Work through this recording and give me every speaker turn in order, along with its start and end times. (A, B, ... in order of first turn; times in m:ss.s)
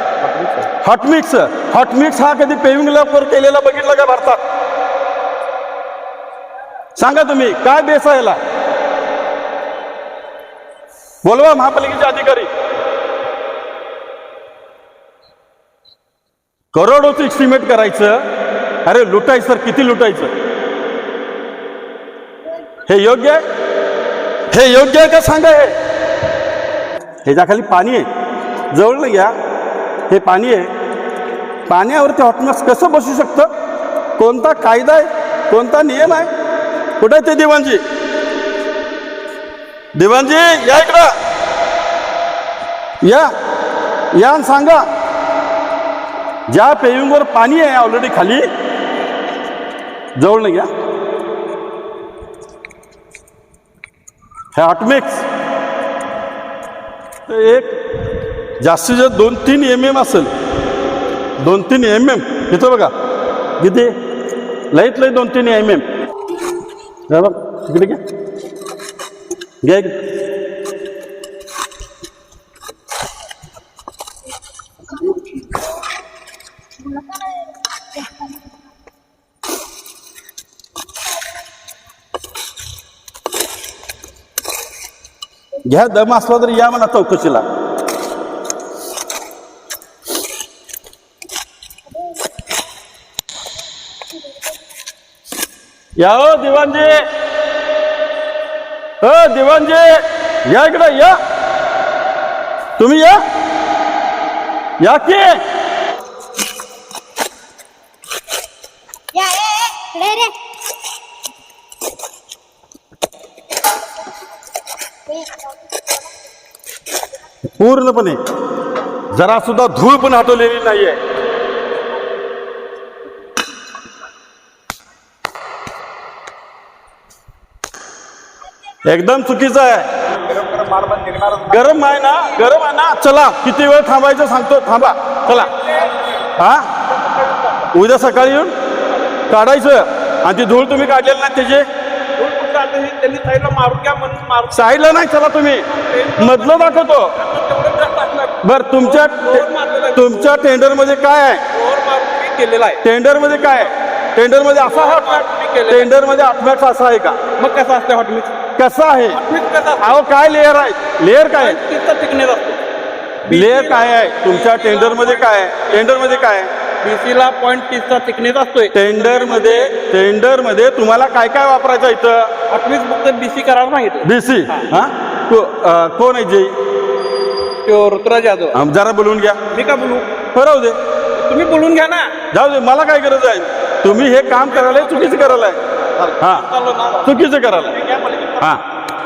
0:00.2-0:00.7 A
0:00.8-0:04.4 B
0:07.0-0:08.4 B
0:11.2-0:12.5 B
0:16.7-0:18.2 B
0:18.8-0:20.3 B
0:22.8-0:23.4 B
0:24.5-0:25.7 B
0:27.2-0:28.1 B
0:28.7-0:29.3 B
0:30.1-0:30.7 B
0:31.7-0:33.5 B
0:34.2-0:36.3 B
0:37.0-0:37.8 B
0:40.0-0:41.1 B
0:43.0-0:43.3 B
0:44.1-0:44.8 B
0:46.5-0:48.5 B
0:50.2-0:50.7 B
0:54.5-0:55.2 B
0:57.3-0:57.8 B
0:58.6-1:00.3 B
1:01.4-1:02.9 B
1:03.6-1:03.9 B
1:04.7-1:05.8 B
1:07.1-1:08.0 B
1:09.6-1:10.0 B
1:16.8-1:17.5 C
1:25.6-1:27.4 B
1:36.0-1:37.0 B
1:39.0-1:41.2 B
1:42.8-1:43.2 B
1:44.8-1:45.4 B
1:49.1-1:50.4 C
1:55.1-1:55.9 C
1:57.5-1:58.2 B
1:59.1-2:01.0 B
2:08.8-2:09.9 B
2:10.2-2:11.8 A
2:11.5-2:15.5 B
2:15.3-2:15.9 A
2:16.4-2:16.7 B
2:16.9-2:17.7 A
2:17.7-2:18.5 B
2:19.3-2:21.7 B
2:22.2-2:25.0 A
2:24.5-2:25.7 B
2:25.7-2:30.4 A
2:26.2-2:27.2 B
2:28.4-2:31.4 B
2:31.5-2:32.8 A
2:32.8-2:37.2 B
2:34.5-2:35.9 A
2:37.4-2:38.4 A
2:38.6-2:39.2 B
2:39.1-2:40.0 A
2:39.8-2:41.6 B
2:41.3-2:42.6 A
2:43.3-2:45.9 A
2:43.3-2:46.5 B
2:46.8-2:49.7 A
2:48.7-2:52.3 B
2:52.5-2:54.7 A
2:54.0-2:56.5 B
2:57.6-2:58.6 A
2:58.5-2:59.4 B
2:59.5-3:00.1 A
3:00.4-3:00.8 B
3:01.2-3:02.1 A
3:02.3-3:05.6 B
3:04.2-3:08.6 A
3:06.2-3:06.4 B
3:07.0-3:07.7 B